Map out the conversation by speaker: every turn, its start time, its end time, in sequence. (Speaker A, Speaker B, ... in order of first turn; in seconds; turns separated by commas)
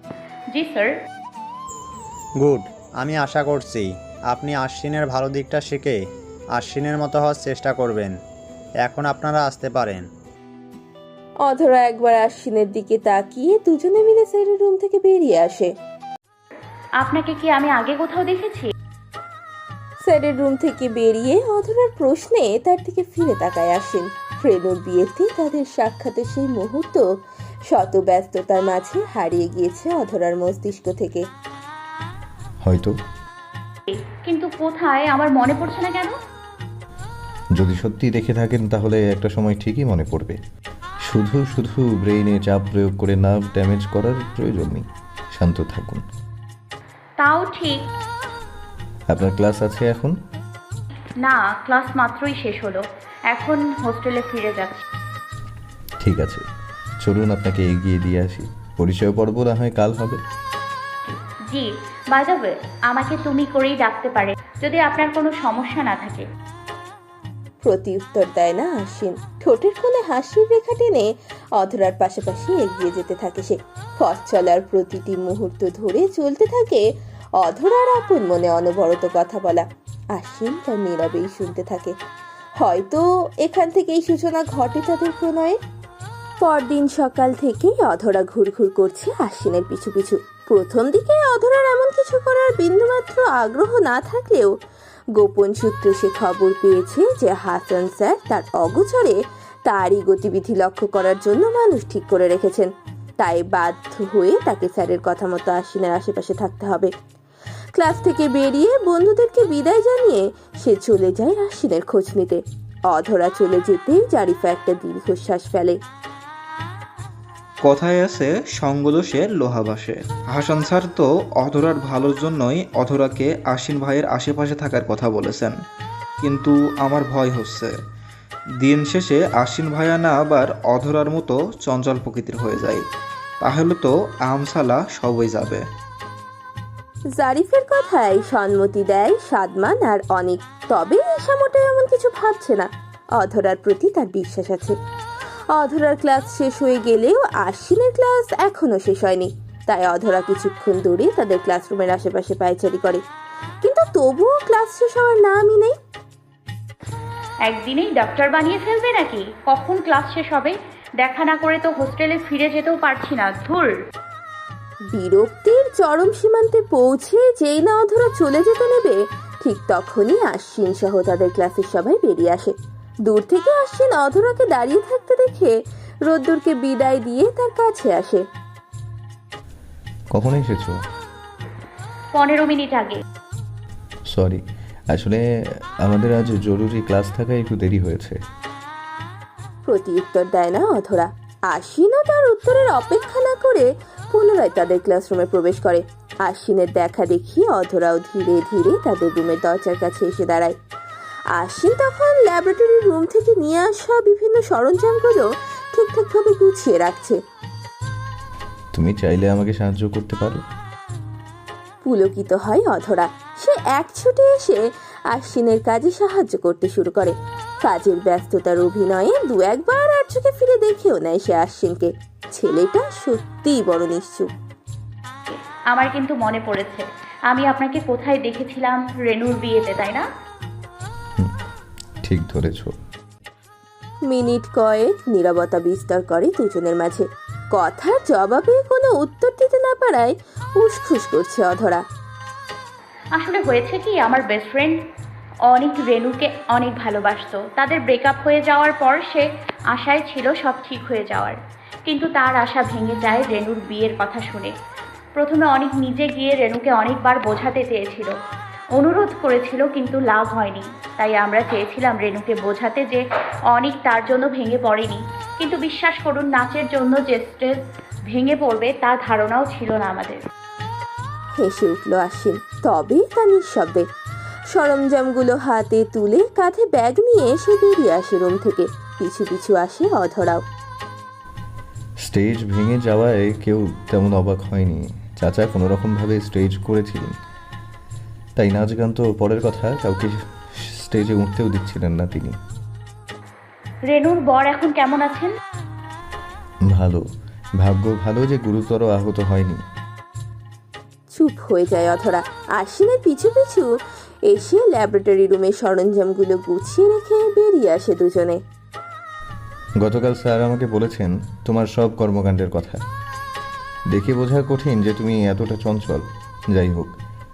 Speaker A: 0.5-0.9, Speaker B: 2.4-6.0, Speaker B: 6.5-8.2, Speaker B: 8.8-10.1, Speaker C: 11.5-15.7, Speaker A: 17.0-18.7, Speaker C: 20.0-27.0, Speaker C: 27.7-31.2, Speaker D: 32.6-33.0, Speaker A: 33.9-36.1, Speaker D: 37.6-40.4, Speaker D: 41.0-46.0, Speaker A: 47.2-47.8, Speaker D: 49.1-50.1, Speaker A: 51.2-54.8, Speaker D: 56.0-56.4, Speaker D: 57.0-60.2, Speaker A: 61.0-66.2, Speaker C: 67.7-76.9, Speaker C: 77.4-81.9, Speaker C: 82.6-85.6, Speaker C: 86.4-94.5, Speaker C: 95.2-106.9, Speaker C: 107.8-115.8, Speaker E: 117.6-125.6, Speaker E: 126.2-127.8, Speaker E: 128.6-132.9, Speaker E: 133.4-135.7, Speaker C: 137.2-144.8, Speaker C: 145.5-153.0, Speaker C: 153.6-155.8, Speaker A: 157.4-163.7, Speaker C: 164.9-172.5, Speaker C: 173.1-178.2, Speaker D: 180.1-180.8, Speaker A: 182.1-183.0, Speaker D: 184.1-185.2, Speaker D: 185.8-188.2, Speaker C: 189.7-200.6, Speaker C: 201.3-207.2, Speaker D: 208.7-210.4, Speaker C: 211.8-224.3, Speaker A: 225.3-230.1, Speaker D: 232.0-232.7, Speaker C: 234.1-241.8, Speaker A: 243.2-244.8, Speaker A: 245.5-254.5, Speaker A: 255.2-258.1, Speaker A: 258.8-270.2, Speaker C: 271.4-273.9, Speaker C: 274.5-280.4, Speaker D: 282.0-287.2, Speaker D: 288.4-292.4, Speaker A: 293.9-295.3, Speaker D: 296.7-297.0, Speaker D: 297.6-299.6, Speaker C: 301.1-303.7, Speaker C: 304.3-308.4, Speaker D: 309.8-312.8, Speaker D: 313.9-317.0